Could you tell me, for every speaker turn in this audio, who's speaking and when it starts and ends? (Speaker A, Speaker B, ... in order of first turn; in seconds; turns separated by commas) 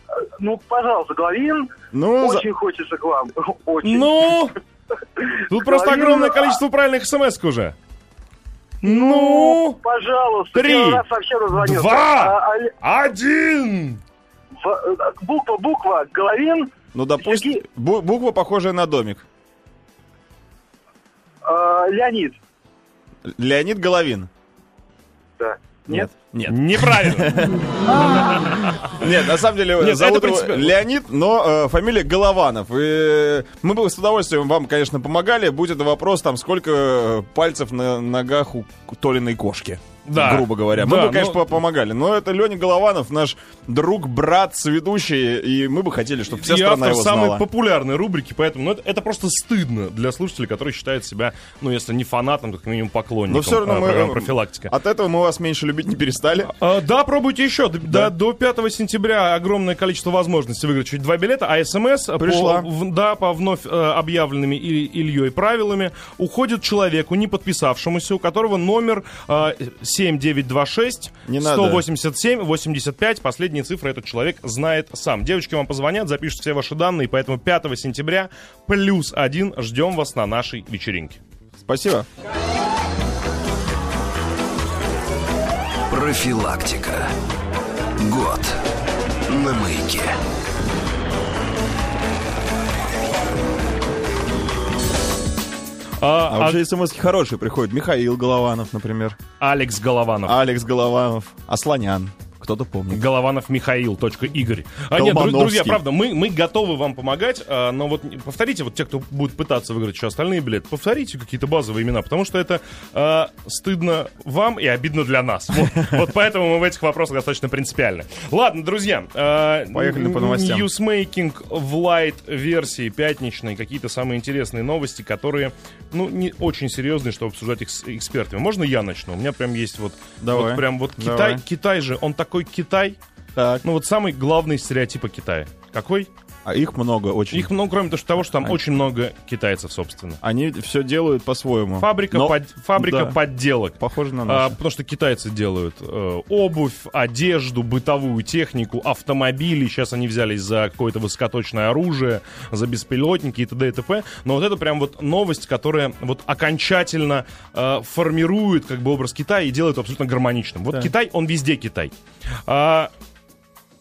Speaker A: 0.4-4.1, Speaker B: 1.9-2.5, Speaker C: 3.8-4.5, Speaker A: 5.2-6.5, Speaker C: 5.5-7.8, Speaker C: 8.8-9.8, Speaker A: 8.8-12.7, Speaker C: 10.5-14.0, Speaker A: 14.6-17.6, Speaker B: 16.9-19.2, Speaker A: 21.4-22.4, Speaker B: 23.2-24.3, Speaker A: 25.4-26.1, Speaker B: 25.9-27.6, Speaker C: 26.4-27.4, Speaker C: 28.3-29.0, Speaker B: 28.8-47.4, Speaker C: 29.7-30.8, Speaker C: 40.0-41.6, Speaker C: 46.3-54.7, Speaker B: 53.3-56.5, Speaker C: 56.4-81.2, Speaker B: 57.9-58.1, Speaker B: 62.2-62.7, Speaker B: 71.2-71.8, Speaker B: 81.6-82.1, Speaker D: 85.9-87.1, Speaker D: 88.0-88.6, Speaker D: 89.3-90.2, Speaker C: 96.0-96.6, Speaker B: 96.3-99.2, Speaker C: 99.4-100.4, Speaker B: 100.2-103.0, Speaker C: 102.9-133.0, Speaker B: 104.9-105.8, Speaker B: 119.7-120.7, Speaker B: 130.2-131.4, Speaker B: 133.3-133.6, Speaker C: 133.6-136.1, Speaker B: 136.4-137.5, Speaker C: 137.3-140.2, Speaker B: 138.3-138.6, Speaker B: 140.2-144.6, Speaker C: 141.8-161.9, Speaker C: 162.4-162.9